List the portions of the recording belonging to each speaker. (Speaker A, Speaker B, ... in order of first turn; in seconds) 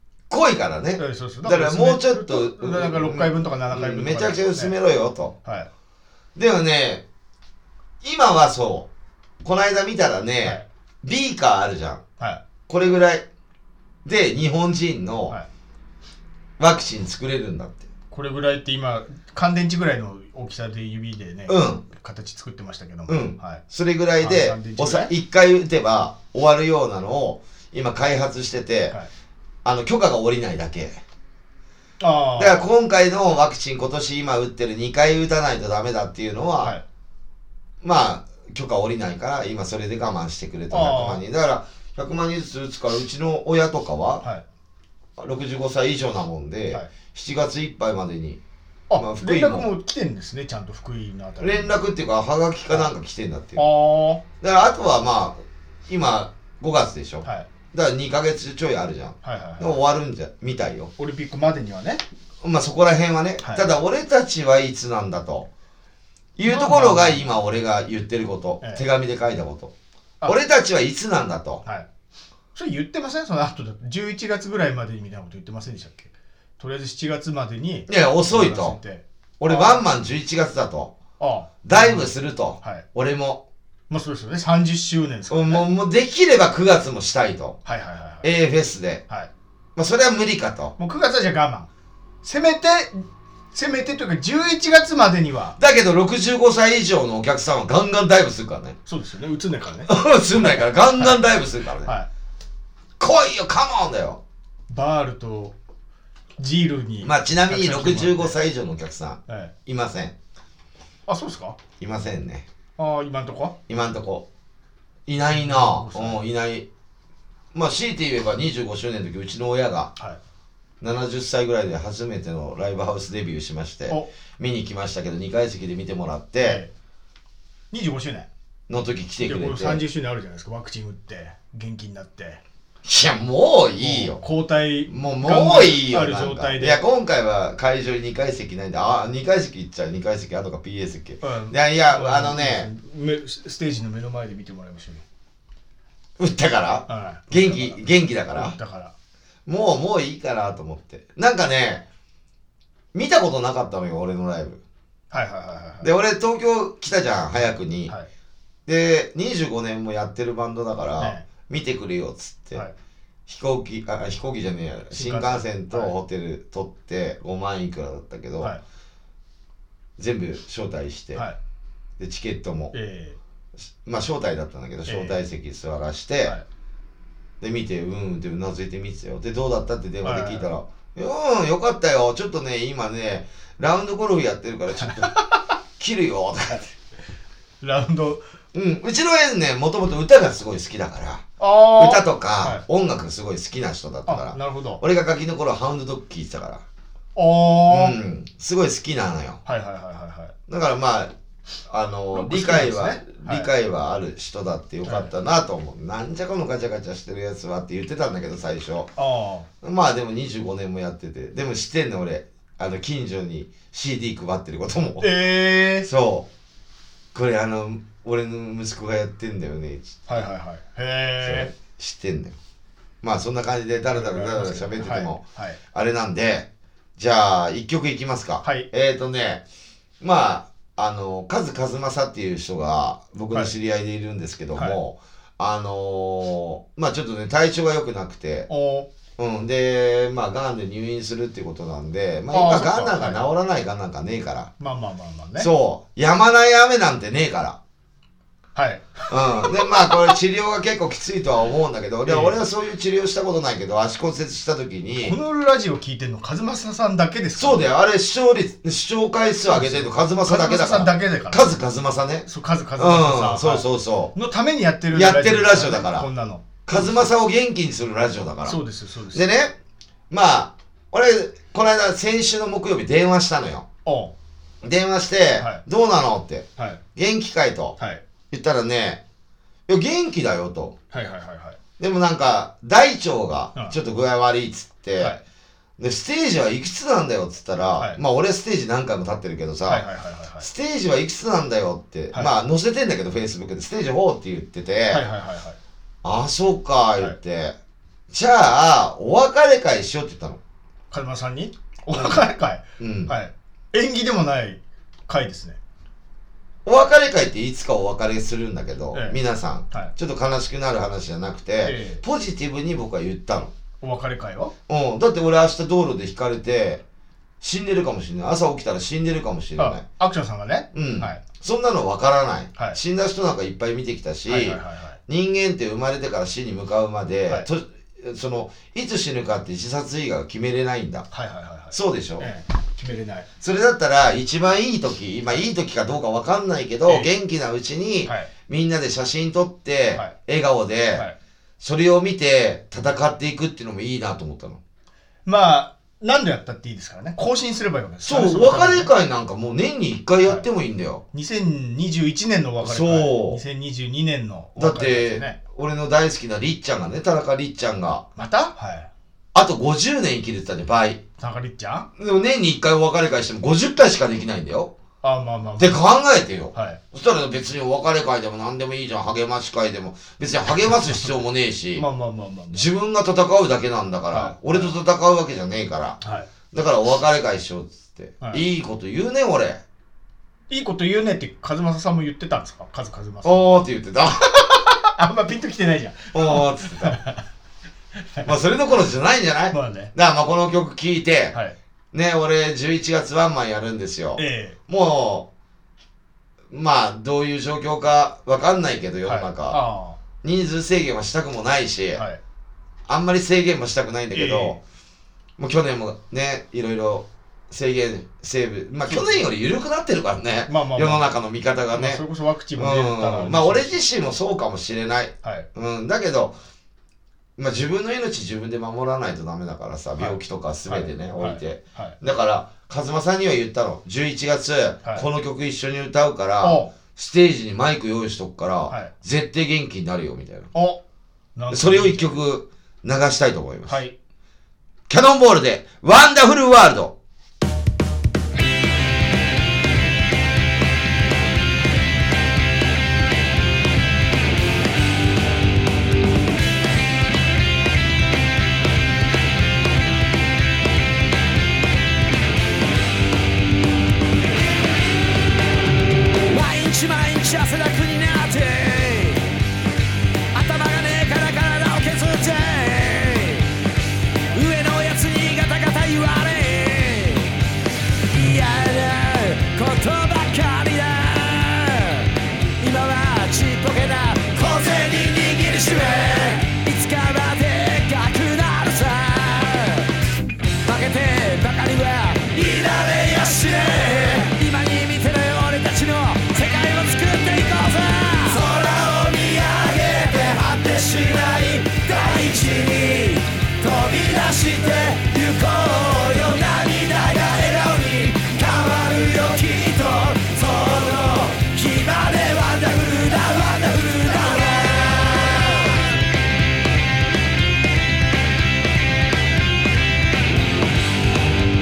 Speaker A: 0.3-5.3, 6.3-7.0, 8.0-8.9, 9.4-12.0, 12.7-13.2, 14.0-15.3, 16.6-17.9, 21.5-21.8, 23.1-28.9, 29.6-31.0, 32.4-36.8, 37.8-44.2, 45.2-48.4, 48.9-49.7, 51.4-53.6, 54.4-60.9, 62.4-65.5, 66.3-69.7, 70.2-71.6, 77.9-78.8, 79.4-80.9, 81.6-83.4, 85.3-87.6, 88.2-89.0, 89.8-90.7, 95.6-98.8, 99.9-101.9, 103.0-104.2, 107.0-110.1, 111.8-112.5, 113.7-114.3, 115.1-116.7, 117.5-119.9, 120.8-126.6, 128.7-129.8, 132.8-134.2, 134.9-142.7, 146.2-148.6, 149.4-151.8, 152.9-154.6, 155.8-157.9, 158.7-162.6, 163.3-168.5, 170.0-171.2, 172.0-172.7, 173.8-176.4, 177.4-185.2, 185.8-186.7, 188.5-196.6, 197.7-199.4, 200.5-201.1, 201.7-208.9, 209.6-215.1, 215.8-216.3, 217.1-220.1, 221.2-222.3, 223.0-225.2, 225.7-229.4, 230.0-238.5, 239.2-244.5, 245.4-247.6, 249.1-255.2, 257.4-264.1, 264.9-266.1, 266.6-268.6, 269.1-269.5, 270.1-273.6, 274.6-277.8, 278.3-279.0, 279.7-280.7, 281.8-285.2, 285.8-289.8, 290.4-295.0, 296.0-297.6, 298.1-300.4, 301.9-302.2, 302.8-303.1, 306.6-313.5, 314.7-316.8, 317.4-319.8, 320.7-331.1, 331.7-332.3, 333.4-341.1, 341.6-344.6, 348.0-351.0, 352.6-353.4, 354.6-358.0, 359.3-361.0, 362.0-364.7, 365.6-371.9, 372.5-376.0, 376.5-379.6, 383.2-384.4, 386.1-387.0, 388.2-391.4, 391.9-395.3, 396.5-399.6, 400.2-402.0, 402.9-404.6, 405.4-412.0, 412.6-416.4, 417.4-430.5, 431.5-433.8, 434.9-436.9
Speaker B: 1.0-4.7, 5.4-5.7, 18.1-23.6, 24.2-25.1, 32.0-32.6, 40.7-41.2, 48.9-51.8, 53.5-54.2, 57.2-57.5, 59.2-59.8, 61.0-62.0, 63.4-63.7, 66.4-67.3, 72.5-79.8, 81.2-82.1, 83.9-85.7, 87.6-88.3, 90.8-91.7, 92.2-95.6, 98.8-101.2, 104.7-105.5, 106.4-108.3, 109.3-109.5, 111.1-111.6, 112.8-113.5, 115.3-116.2, 126.4-126.7, 127.7-128.3, 129.2-132.4, 133.8-136.8, 141.2-145.0, 146.9-148.9, 155.1-155.9, 161.0-161.2, 164.9-165.9, 172.7-173.2, 174.9-175.2, 180.0-180.5, 184.8-185.5, 187.6-188.2, 191.4-192.6, 194.1-194.8, 197.1-198.0, 199.4-200.3, 202.1-203.5, 204.8-205.1, 209.0-209.5, 215.0-215.9, 220.1-221.5, 223.9-225.6, 228.4-228.7, 234.5-234.8, 238.5-238.9, 242.3-243.2, 244.6-245.5, 248.5-249.9, 252.0-252.4, 255.0-257.6, 259.5-261.6, 262.2-267.1, 268.4-269.3, 273.8-274.1, 275.4-275.6, 277.8-278.0, 280.9-281.6, 289.7-290.5, 294.9-295.6, 300.9-305.6, 308.9-309.2, 311.6-312.0, 313.8-314.5, 319.6-321.2, 324.3-325.0, 331.1-333.3, 338.0-338.3, 345.2-348.9, 351.1-355.4, 358.1-358.9, 361.2-361.9, 365.0-365.8, 366.5-366.8, 371.8-372.7, 374.1-374.7, 376.0-376.3, 380.5-383.6, 384.4-387.2, 388.0-388.3, 389.5-389.9, 394.1-394.6, 399.0-400.0, 401.9-402.2, 404.1-404.6, 408.9-409.2, 410.5-411.1, 411.7-413.8, 420.0-422.0, 426.4-426.7, 430.5-430.8, 431.4-432.1, 433.6-433.9
Speaker C: 456.3-459.3, 460.3-463.5, 464.3-467.4, 468.1-479.9, 480.6-505.1